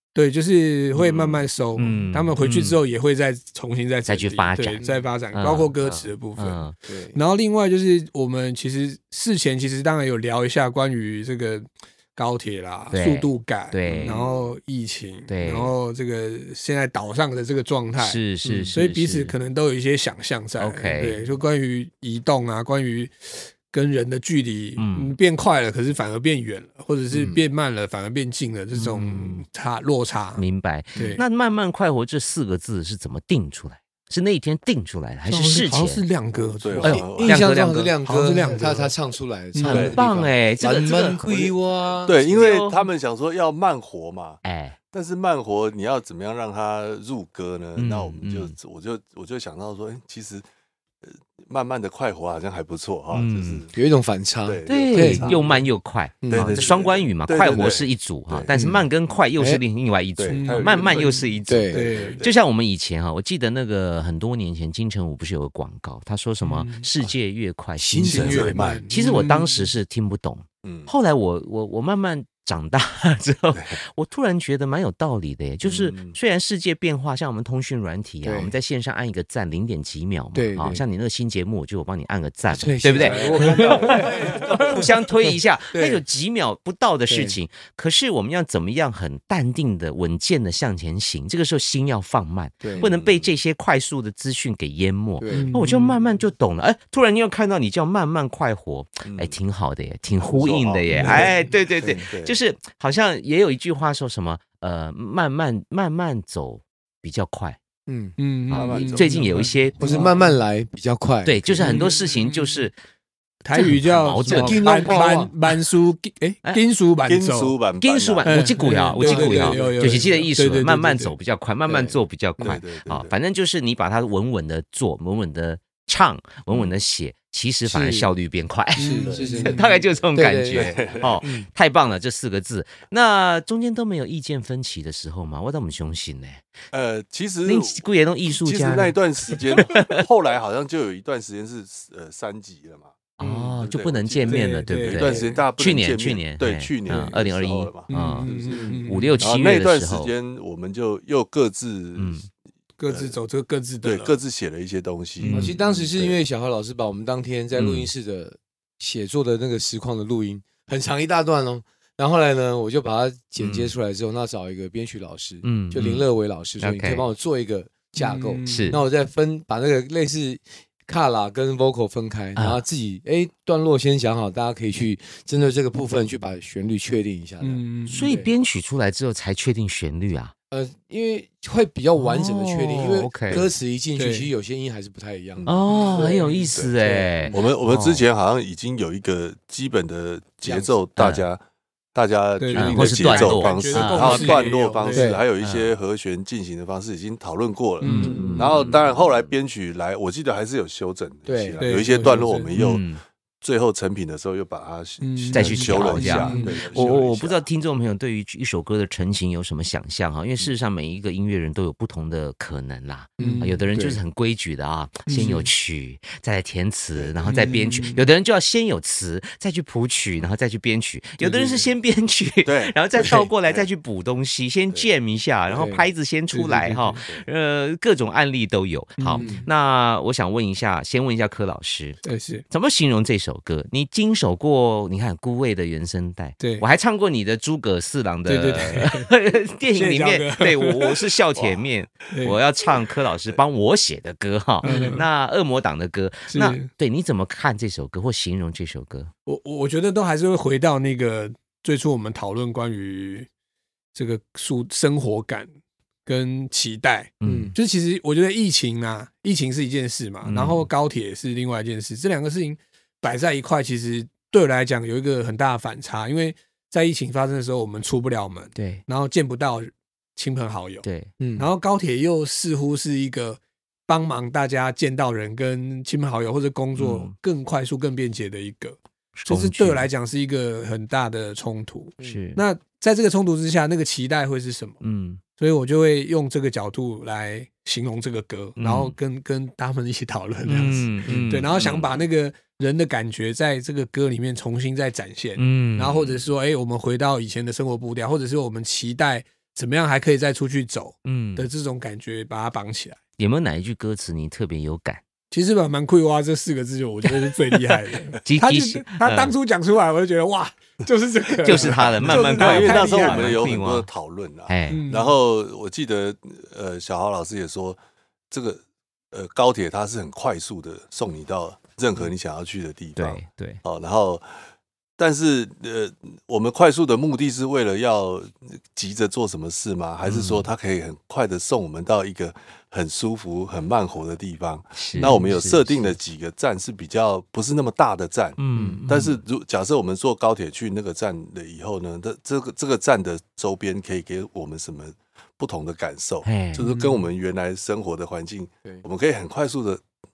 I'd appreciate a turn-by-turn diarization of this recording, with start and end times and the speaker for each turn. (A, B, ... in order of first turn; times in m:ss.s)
0:00.1-0:30.4 A
0:01.0-0:02.8 B
0:04.1-0:06.7 B
0:04.8-0:05.1 C
0:06.8-0:07.2 C
0:12.9-0:14.2 B
0:14.0-0:14.6 D
0:15.3-0:15.7 B
0:18.0-0:19.3 B
0:20.6-0:21.2 B
0:24.8-0:25.2 B
0:27.1-0:27.4 C
0:28.7-0:29.4 B
0:30.4-0:36.0 B
0:31.0-0:31.2 C
0:31.0-0:31.2 A
0:35.3-0:37.2 A
0:36.4-0:42.2 C
0:36.6-0:37.5 D
0:36.8-0:37.9 B
0:38.0-0:38.9 A
0:39.5-0:40.0 A
0:39.6-0:41.2 B
0:39.7-0:40.0 D
0:41.2-0:41.5 D
0:42.0-0:50.4 D
0:42.2-0:42.8 B
0:44.4-0:44.8 B
0:47.8-0:48.5 B
0:51.0-0:53.7 D
0:53.1-0:53.6 B
0:53.7-0:55.4 C
0:54.4-0:55.5 D
0:54.6-1:47.6 B
0:56.2-0:56.6 C
0:56.3-0:58.5 D
0:58.5-0:58.8 C
0:59.4-0:59.6 C
1:00.2-1:02.4 D
1:00.3-1:02.2 A
1:01.5-1:01.9 C
1:06.4-1:06.9 A
1:07.8-1:08.6 C
1:08.0-1:09.7 A
1:08.0-1:08.9 D
1:10.6-1:10.9 D
1:15.6-1:16.2 D
1:18.2-1:18.5 C
1:20.3-1:20.8 C
1:22.5-1:24.8 C
1:23.0-1:24.0 D
1:23.4-1:24.8 A
1:25.7-1:26.0 C
1:27.1-1:27.4 C
1:32.6-1:32.9 C
1:32.7-1:33.3 D
1:35.2-1:35.6 C
1:35.3-1:36.0 A
1:39.0-1:39.4 D
1:40.2-1:42.4 D
1:40.9-1:41.3 A
1:47.9-1:48.2 C
1:48.2-1:50.4 A
1:48.5-1:50.1 B
1:48.5-1:49.3 D
1:49.8-1:51.9 C
1:51.2-1:52.8 B
1:51.6-1:52.7 A
1:53.4-1:57.6 A
1:53.5-1:54.6 B
1:54.2-1:55.3 C
1:57.1-1:58.3 D
1:57.8-2:16.4 B
1:58.2-2:01.2 A
1:58.9-2:00.1 C
2:01.7-2:02.6 C
2:02.4-2:03.1 D
2:07.6-2:08.1 C
2:08.8-2:09.7 A
2:08.8-2:11.0 C
2:09.1-2:09.8 D
2:10.5-2:11.3 D
2:16.7-2:23.0 D
2:17.4-2:20.0 B
2:23.2-2:28.3 B
2:23.2-2:23.5 A
2:23.6-2:28.6 D
2:24.3-2:25.4 A
2:27.9-2:29.2 A
2:28.4-2:28.8 C
2:28.8-2:30.1 B
2:29.2-2:32.2 D
2:32.0-2:32.2 B
2:32.8-2:34.2 A
2:32.9-2:33.2 D
2:33.8-2:36.2 D
2:35.3-2:35.6 A
2:35.3-2:58.3 C
2:37.5-2:37.9 B
2:43.4-2:43.7 B
2:45.4-2:46.0 B
2:46.6-2:47.1 B
2:48.0-2:48.8 A
2:48.5-2:48.8 B
2:52.4-2:52.6 B
2:57.4-2:58.0 A
2:57.9-3:00.3 B
3:00.5-3:07.4 C
3:02.0-3:03.5 B
3:04.0-3:04.3 A
3:05.4-3:05.6 D
3:05.4-3:08.0 B
3:05.7-3:06.5 A
3:07.3-3:11.4 D
3:10.4-3:10.8 C
3:11.0-3:11.2 B
3:11.9-3:22.8 D
3:12.4-3:15.1 A
3:12.5-3:14.4 B
3:14.9-3:15.2 C
3:15.4-3:15.7 B
3:17.8-3:18.5 A
3:17.8-3:18.9 B
3:18.0-3:18.5 C
3:21.2-3:21.6 C
3:21.6-3:22.5 A
3:22.5-3:23.0 B
3:23.4-3:27.4 D
3:25.0-3:26.5 A
3:25.3-3:52.0 B
3:25.5-3:26.5 C
3:33.2-3:33.6 A
3:33.2-3:34.0 C
3:35.1-3:35.5 A
3:36.9-3:37.6 D
3:37.3-3:38.0 A
3:41.2-3:41.7 C
3:42.4-3:43.7 D
3:45.5-3:45.9 C
3:46.3-3:47.0 A
3:49.0-3:49.5 A
3:49.2-3:49.5 C
3:52.0-3:52.4 A
3:52.5-4:09.1 B
3:56.4-3:56.6 A
3:58.2-3:59.1 A
3:59.7-4:01.2 A
4:01.3-4:01.7 D
4:02.1-4:02.4 A
4:04.6-4:05.0 A
4:04.7-4:05.0 C
4:06.3-4:06.7 A
4:09.2-4:13.3 A
4:13.9-4:15.5 A
4:16.1-4:30.8 A
4:17.2-4:17.5 B
4:17.2-4:17.5 C
4:20.2-4:20.7 B
4:28.5-4:28.8 B
4:30.8-4:31.1 B
4:31.2-4:31.5 C
4:31.4-4:44.8 A
4:36.7-4:37.1 B
4:39.2-4:39.9 B
4:42.0-4:42.4 B
4:44.8-4:45.2 B
4:45.4-5:03.0 A
4:48.6-4:49.0 B
4:50.4-4:51.9 B
4:55.4-4:56.2 B
5:01.0-5:01.5 B
5:03.2-5:05.0 B
5:05.3-5:13.4 A
5:07.0-5:09.3 B
5:11.4-5:13.9 B
5:11.5-5:17.8 D
5:14.5-5:14.8 B
5:14.7-5:15.1 A
5:18.3-5:24.3 D
5:23.0-5:23.6 B
5:25.0-5:49.8 D
5:30.0-5:30.5 B
5:34.8-5:35.9 B
5:38.4-5:39.2 B
5:46.2-5:46.6 B
5:46.6-5:47.1 A